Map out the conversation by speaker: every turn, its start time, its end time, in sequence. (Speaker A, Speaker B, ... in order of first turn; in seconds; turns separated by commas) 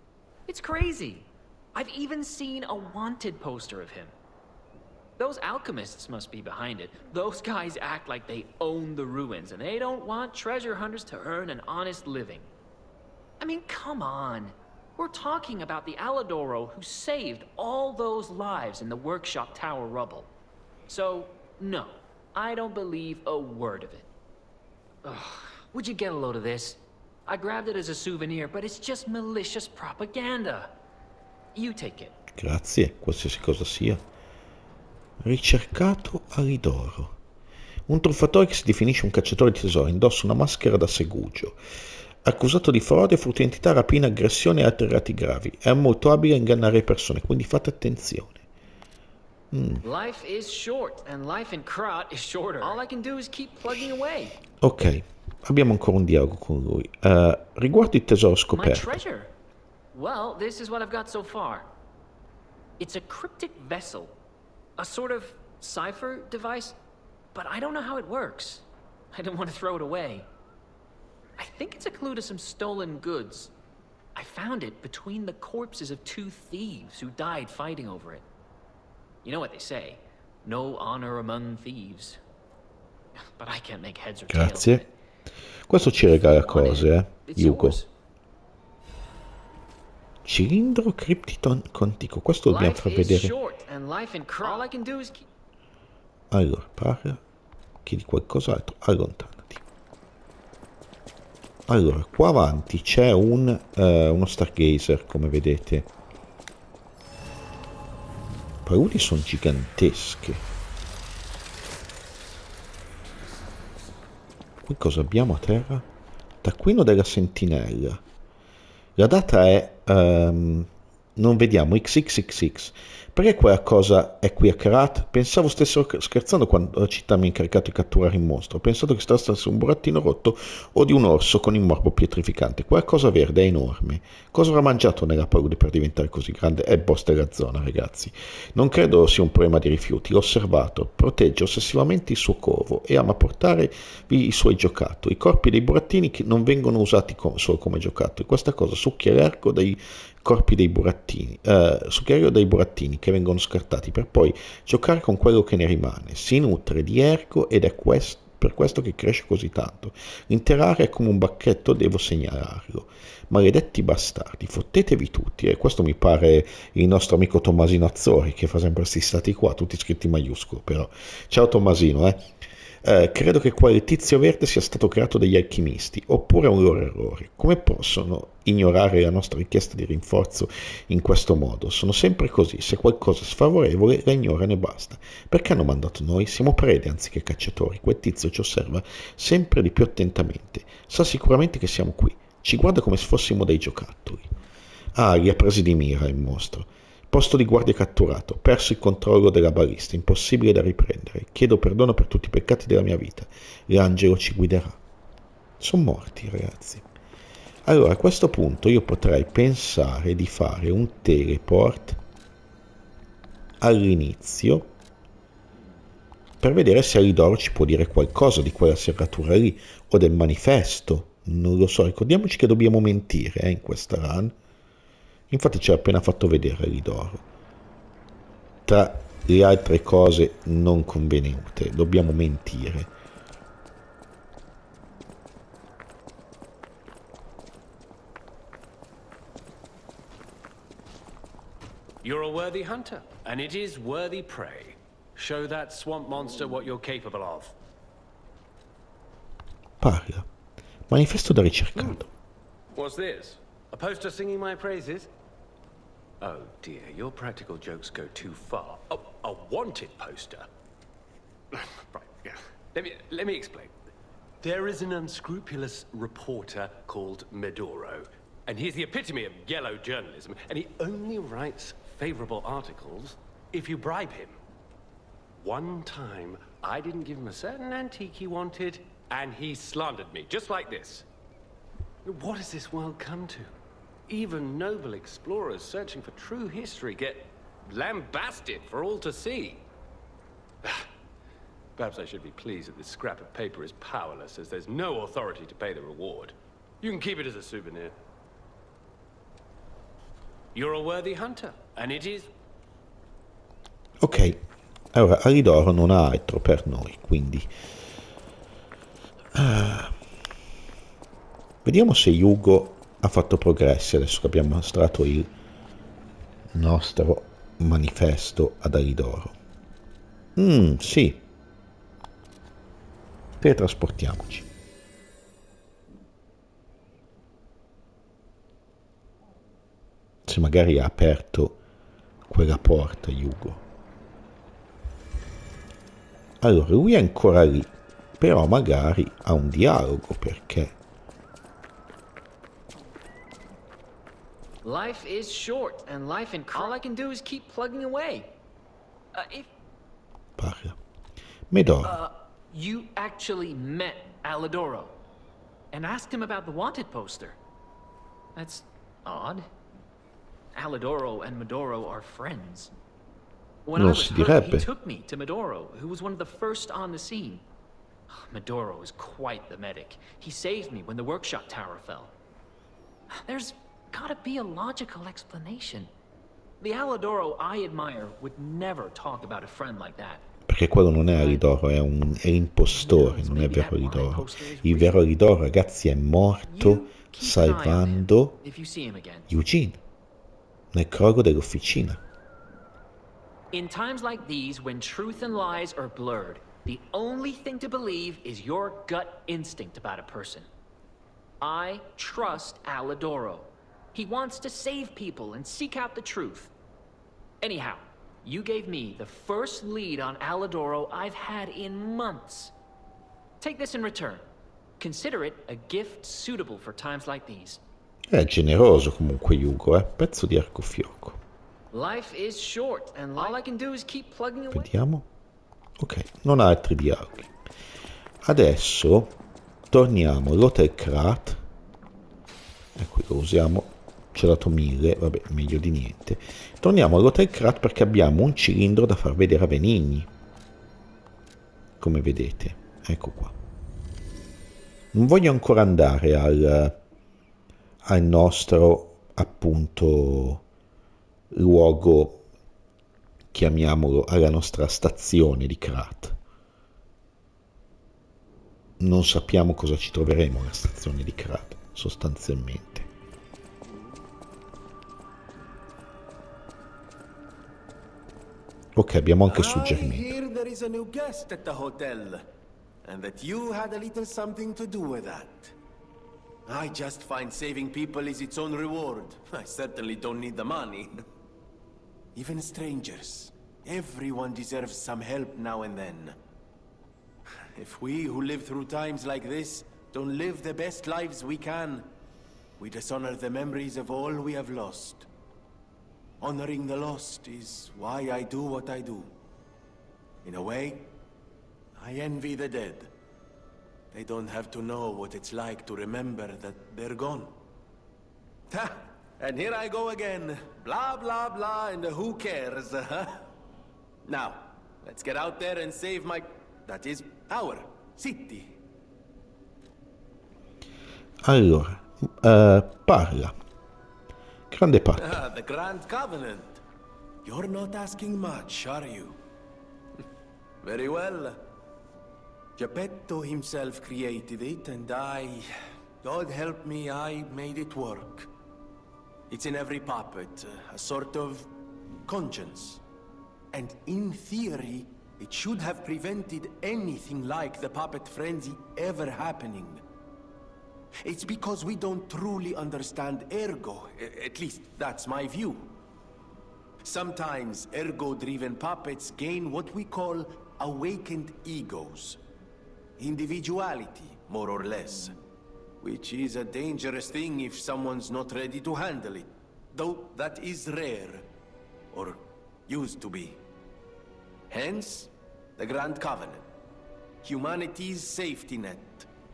Speaker A: 0.5-4.1, Speaker A: 5.2-12.5, Speaker A: 13.4-20.3, Speaker A: 20.9-24.1, Speaker A: 25.0-30.7, Speaker A: 31.5-32.1, Speaker B: 32.4-34.0, Speaker B: 35.2-37.2, Speaker B: 37.9-41.6, Speaker B: 42.2-48.4, Speaker B: 49.5-49.8, Speaker A: 49.8-54.4, Speaker B: 54.6-59.0, Speaker A: 58.5-59.3, Speaker A: 59.9-61.7, Speaker A: 62.8-64.2, Speaker A: 64.8-66.8, Speaker A: 67.3-70.3, Speaker A: 71.4-73.5, Speaker A: 74.2-78.3, Speaker A: 79.2-82.2, Speaker A: 83.4-84.9, Speaker B: 84.3-84.8, Speaker B: 85.7-87.8, Speaker A: 86.2-87.9, Speaker B: 90.2-93.3, Speaker A: 92.5-95.2, Speaker B: 96.3-97.2, Speaker B: 97.8-99.6, Speaker B: 101.7-105.9, Speaker B: 108.7-110.4, Speaker B: 114.6-115.9, Speaker B: 116.4-118.0, Speaker B: 119.0-172.3, Speaker B: 172.8-194.3, Speaker B: 194.9-204.8, Speaker B: 205.6-206.8, Speaker B: 207.7-212.0, Speaker B: 213.6-214.7, Speaker B: 216.4-224.3, Speaker B: 225.3-227.2, Speaker B: 228.7-232.9, Speaker C: 242.0-247.6, Speaker B: 249.8-250.3, Speaker B: 250.9-252.1, Speaker C: 252.7-255.1, Speaker C: 256.2-260.5, Speaker C: 261.5-263.8, Speaker C: 264.4-274.4, Speaker C: 275.4-281.1, Speaker C: 282.1-283.5, Speaker C: 284.1-289.6, Speaker C: 291.8-298.0, Speaker C: 300.5-302.3, Speaker B: 304.0-304.4, Speaker B: 304.9-307.5, Speaker B: 309.4-309.9, Speaker B: 311.6-315.3, Speaker B: 316.6-319.4, Speaker B: 320.4-321.2, Speaker B: 323.4-324.5, Speaker B: 330.3-331.6, Speaker B: 332.3-333.6, Speaker B: 336.4-340.7, Speaker A: 344.6-348.3, Speaker A: 349.1-349.5, Speaker B: 350.4-350.8, Speaker B: 351.5-352.0, Speaker A: 351.8-355.0, Speaker A: 355.7-357.4, Speaker A: 358.4-359.5, Speaker A: 360.5-362.7, Speaker A: 363.7-367.4, Speaker B: 363.8-364.7, Speaker A: 368.1-372.1, Speaker A: 373.1-375.9, Speaker A: 376.6-380.2, Speaker B: 380.5-388.4, Speaker A: 381.1-381.4, Speaker A: 382.7-385.0, Speaker A: 386.5-389.3, Speaker B: 389.3-389.8, Speaker B: 390.7-392.0, Speaker A: 393.5-400.5, Speaker A: 401.4-406.5, Speaker A: 407.4-412.5, Speaker A: 413.4-414.2, Speaker A: 414.8-417.6, Speaker B: 418.1-421.2, Speaker A: 421.7-424.7, Speaker B: 424.5-425.1, Speaker B: 425.8-427.3, Speaker B: 428.2-429.1, Speaker B: 429.7-431.4, Speaker B: 432.8-440.1, Speaker B: 441.8-443.3, Speaker B: 444.9-446.8, Speaker B: 447.9-450.4, Speaker B: 451.3-452.2, Speaker B: 453.3-456.2, Speaker B: 458.8-462.9, Speaker B: 468.8-470.1, Speaker D: 469.3-472.3, Speaker D: 472.8-475.6, Speaker D: 476.5-481.1, Speaker D: 482.1-486.2, Speaker D: 487.6-491.9, Speaker D: 492.6-495.1, Speaker D: 496.2-499.1, Speaker D: 500.2-501.0, Speaker D: 501.8-502.9, Speaker D: 503.9-507.4, Speaker D: 508.5-513.2, Speaker D: 514.0-518.6, Speaker B: 521.2-523.3, Speaker B: 524.5-525.2, Speaker D: 525.0-526.6, Speaker D: 527.2-529.2, Speaker D: 530.6-531.4, Speaker D: 532.6-538.3, Speaker D: 539.3-541.5, Speaker D: 542.1-542.8, Speaker D: 543.5-549.8, Speaker D: 551.0-555.8, Speaker D: 556.8-562.2, Speaker D: 563.0-565.2, Speaker D: 565.8-571.3, Speaker D: 571.9-573.4, Speaker D: 574.5-576.5, Speaker D: 577.2-579.1